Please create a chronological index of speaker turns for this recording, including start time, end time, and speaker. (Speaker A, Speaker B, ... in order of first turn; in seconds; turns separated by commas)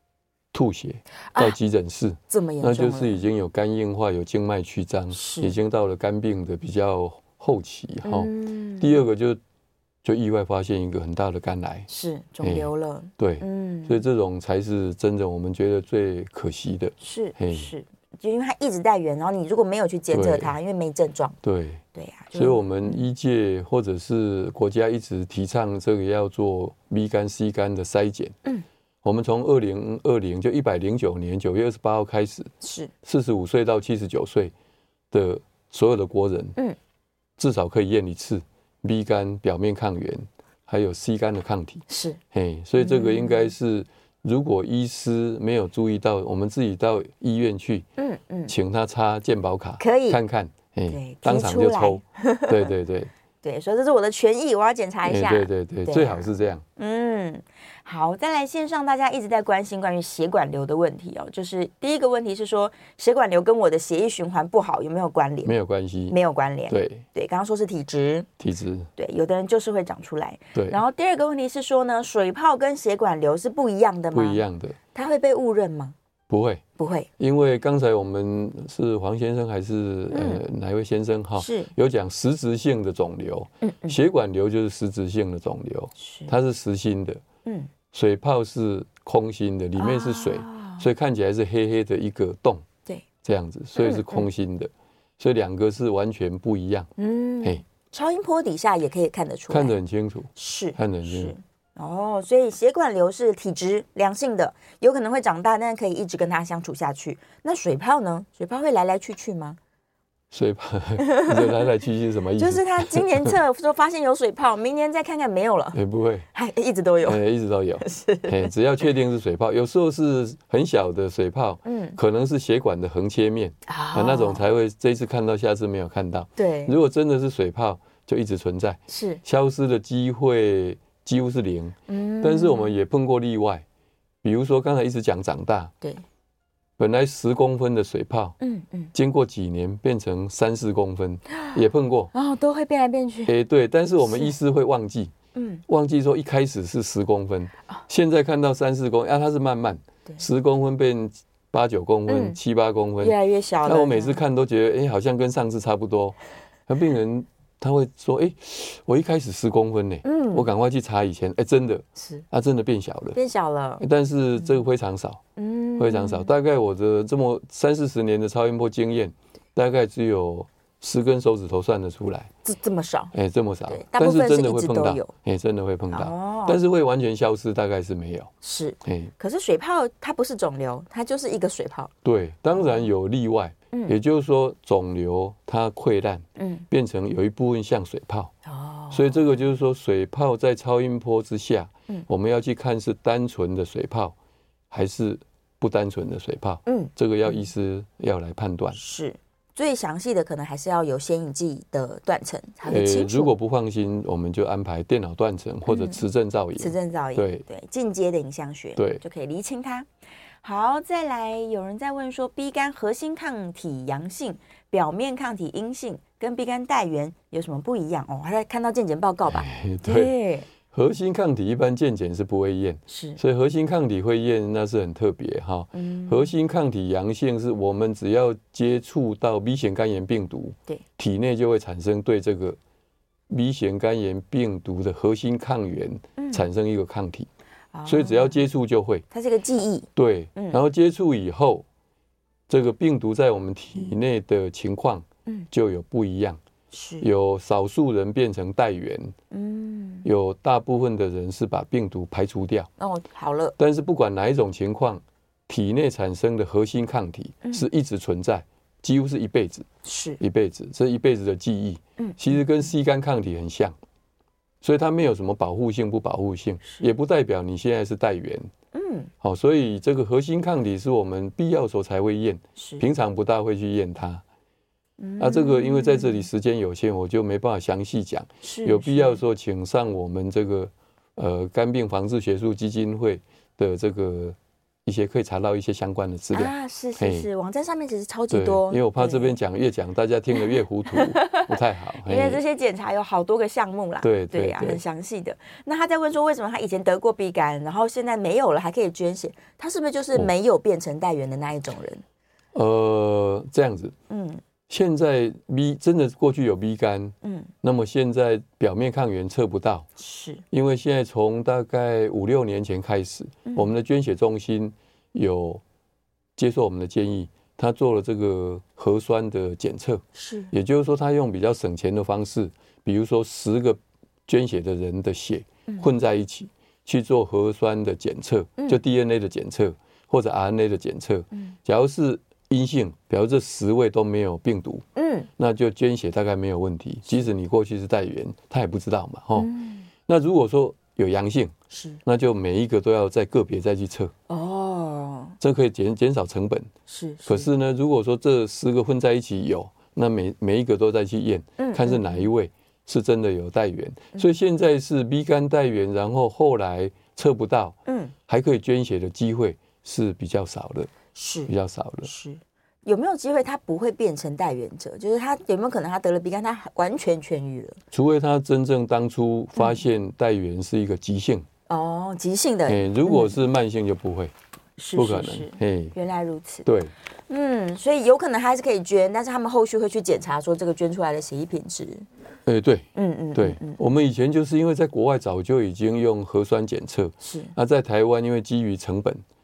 Speaker A: 0.5-9.4, Speaker B: 1.3-1.6, Speaker B: 2.3-3.2, Speaker B: 5.1-5.5, Speaker B: 8.0-9.0, Speaker A: 10.0-11.9, Speaker B: 11.9-14.0, Speaker A: 12.4-17.7, Speaker B: 17.0-21.4, Speaker A: 20.1-20.5, Speaker A: 21.4-28.4, Speaker B: 21.9-23.0, Speaker A: 29.0-34.5, Speaker B: 32.6-32.9, Speaker A: 35.1-36.6, Speaker A: 37.4-47.9, Speaker B: 41.9-42.2, Speaker B: 42.8-43.5, Speaker B: 48.0-48.5, Speaker A: 48.5-53.1, Speaker B: 49.8-50.2, Speaker B: 50.9-52.7, Speaker B: 53.4-65.5, Speaker A: 55.0-56.6, Speaker A: 65.4-66.2, Speaker B: 66.1-68.3, Speaker A: 66.7-67.0, Speaker A: 68.4-68.9, Speaker B: 69.0-74.4, Speaker A: 70.5-70.8, Speaker A: 74.1-74.8, Speaker B: 74.9-75.9, Speaker A: 76.3-76.6, Speaker B: 76.8-77.1, Speaker A: 77.2-87.2, Speaker B: 80.1-80.4, Speaker B: 81.3-81.7, Speaker B: 83.6-84.0, Speaker B: 86.0-86.3, Speaker B: 87.4-87.7, Speaker A: 87.9-92.6, Speaker B: 89.8-90.8, Speaker A: 93.2-96.9, Speaker B: 93.8-94.2, Speaker B: 97.0-99.8, Speaker A: 99.5-101.3, Speaker B: 100.3-109.6, Speaker A: 110.3-113.3, Speaker B: 111.0-111.6, Speaker B: 112.4-115.8, Speaker A: 115.7-116.2, Speaker B: 116.3-117.2, Speaker A: 117.0-133.6, Speaker B: 117.8-118.5, Speaker B: 121.6-122.0, Speaker B: 123.7-124.5, Speaker B: 126.4-126.7, Speaker B: 128.9-129.2, Speaker B: 131.9-132.8, Speaker A: 134.2-135.7, Speaker A: 136.8-138.3, Speaker B: 138.4-138.9, Speaker A: 138.9-142.1, Speaker B: 142.1-143.3, Speaker A: 143.2-145.1, Speaker B: 144.0-144.3, Speaker B: 145.3-145.6, Speaker A: 145.7-156.2, Speaker B: 152.1-152.4, Speaker B: 153.0-154.2, Speaker A: 156.7-163.2, Speaker B: 160.0-160.5, Speaker B: 162.0-162.2, Speaker B: 163.1-163.8, Speaker A: 163.8-165.2, Speaker B: 165.4-166.3, Speaker A: 165.8-172.3, Speaker B: 172.4-173.1, Speaker A: 173.1-178.3, Speaker B: 173.7-175.1, Speaker B: 175.9-176.6, Speaker B: 178.4-181.9, Speaker A: 178.8-179.1, Speaker A: 182.0-188.3, Speaker B: 186.4-186.6, Speaker B: 188.4-189.3, Speaker A: 188.9-194.1, Speaker A: 194.7-198.8, Speaker B: 196.7-197.4, Speaker B: 198.7-203.3, Speaker A: 202.6-207.4, Speaker B: 205.7-206.0, Speaker B: 206.6-209.9, Speaker A: 208.8-209.0, Speaker B: 210.4-220.5, Speaker A: 219.3-232.6, Speaker B: 222.9-223.2, Speaker B: 225.7-226.3, Speaker A: 233.3-237.3, Speaker B: 236.2-236.5, Speaker B: 237.7-238.4, Speaker A: 237.8-239.0, Speaker B: 239.1-240.6, Speaker A: 239.9-241.6, Speaker A: 242.5-246.4, Speaker B: 246.7-247.1, Speaker A: 247.0-249.1, Speaker B: 249.3-250.1, Speaker A: 250.0-252.7, Speaker B: 252.8-253.6, Speaker A: 253.6-259.7, Speaker B: 259.8-260.2, Speaker A: 260.2-263.8, Speaker B: 262.0-262.4, Speaker A: 264.6-268.5, Speaker B: 268.7-269.1, Speaker A: 269.2-274.2, Speaker B: 272.6-272.8, Speaker B: 275.0-276.3, Speaker A: 275.2-287.3, Speaker B: 278.4-279.2, Speaker B: 286.3-289.4, Speaker A: 288.3-292.4, Speaker B: 290.4-302.0, Speaker A: 294.0-294.8, Speaker A: 302.5-303.9, Speaker B: 304.1-304.4, Speaker A: 304.7-309.9, Speaker B: 307.2-307.5, Speaker B: 310.0-310.4, Speaker A: 310.5-315.6, Speaker A: 316.4-334.9, Speaker B: 320.1-320.5, Speaker B: 334.9-335.3, Speaker A: 335.4-339.5, Speaker B: 339.4-339.9, Speaker A: 340.1-344.1, Speaker B: 341.7-342.0, Speaker B: 344.3-345.4, Speaker A: 345.4-346.7, Speaker B: 346.9-347.5, Speaker A: 347.2-357.8, Speaker B: 351.6-352.3, Speaker B: 357.9-358.1, Speaker A: 358.3-360.9, Speaker B: 361.1-361.5, Speaker A: 361.5-362.1, Speaker B: 362.0-367.8, Speaker A: 367.9-371.5, Speaker B: 371.7-373.4, Speaker A: 372.7-374.3, Speaker B: 374.8-376.7, Speaker A: 374.9-375.9, Speaker A: 376.6-376.9, Speaker B: 377.3-382.1, Speaker A: 382.4-389.2, Speaker B: 382.9-383.8, Speaker B: 387.2-387.5